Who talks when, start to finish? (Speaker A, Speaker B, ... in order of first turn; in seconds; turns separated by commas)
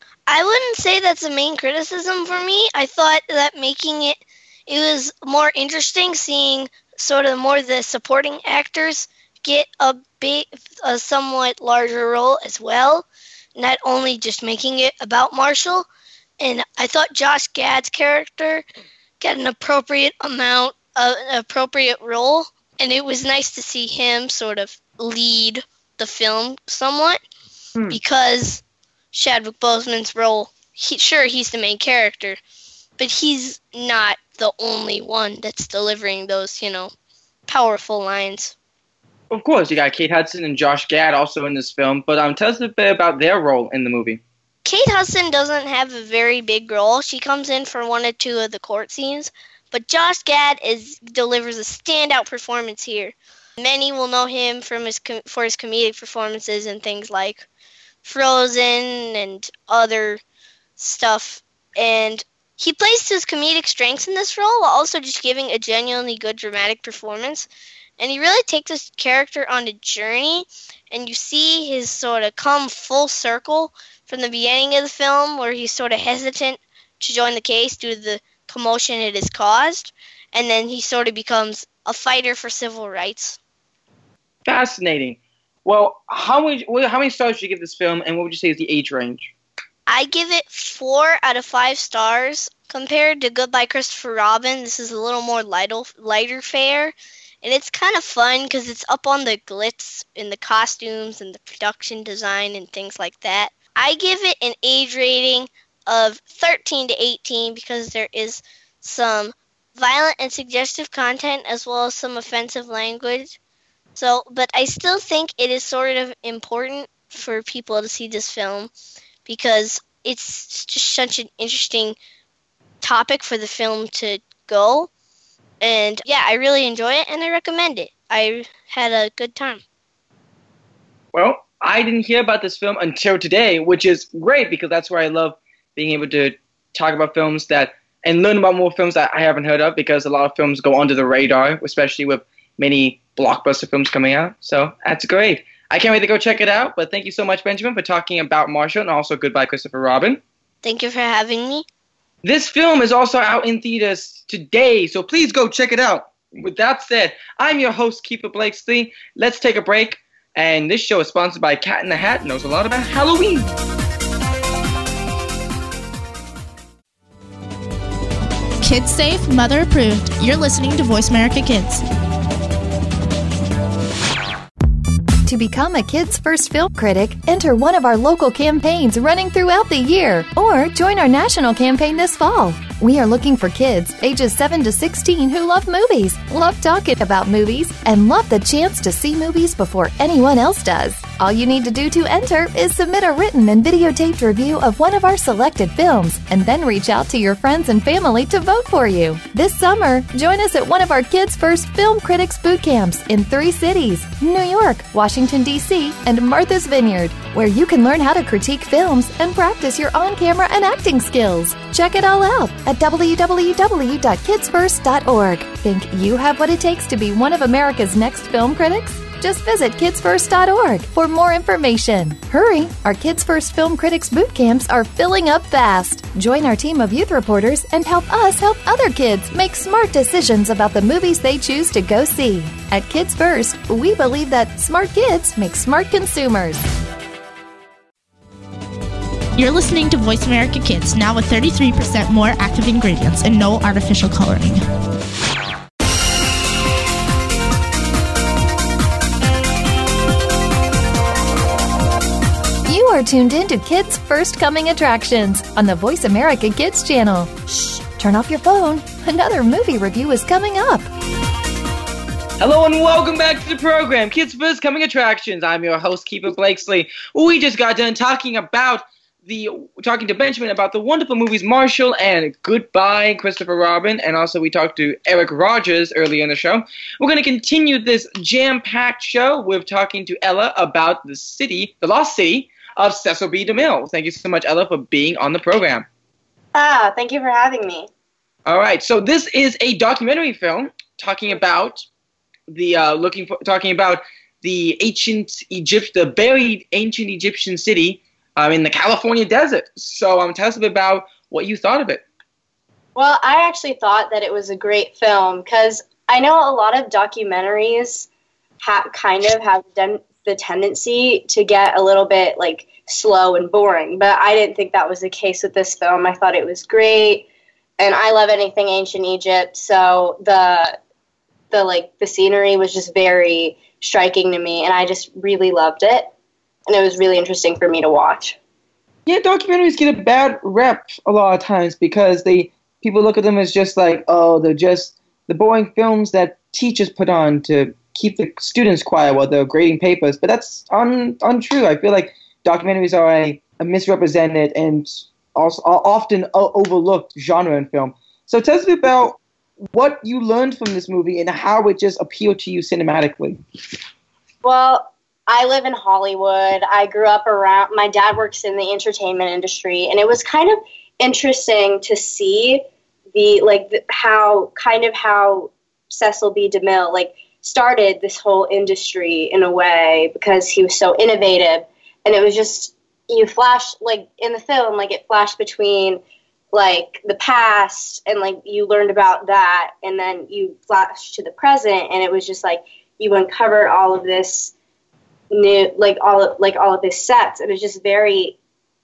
Speaker A: 0.3-15.9, Speaker A: 16.4-18.6, Speaker A: 19.2-27.2, Speaker A: 27.9-28.6, Speaker A: 29.1-32.4, Speaker A: 33.0-36.9, Speaker A: 37.5-38.5, Speaker B: 39.3-44.2, Speaker A: 44.6-57.5, Speaker A: 58.0-60.2, Speaker A: 60.8-67.5, Speaker A: 68.0-83.4, Speaker B: 84.5-89.3, Speaker A: 89.9-113.4, Speaker A: 114.0-118.7, Speaker A: 119.3-122.0, Speaker A: 122.8-124.9, Speaker A: 125.6-129.6, Speaker B: 131.1-150.2, Speaker A: 150.6-151.7, Speaker B: 152.2-163.6, Speaker C: 168.6-171.8, Speaker D: 175.2-236.7, Speaker C: 239.4-244.6, Speaker D: 252.7-260.9, Speaker B: 262.4-285.9, Speaker E: 286.6-287.9, Speaker B: 288.5-291.9, Speaker B: 292.5-302.0, Speaker E: 303.0-308.1, Speaker E: 308.6-317.3, Speaker E: 317.8-320.8, Speaker E: 321.5-326.1, Speaker E: 326.7-328.4, Speaker B: 329.1-349.2, Speaker B: 349.7-353.4, Speaker E: 354.4-384.5, Speaker E: 385.3-388.4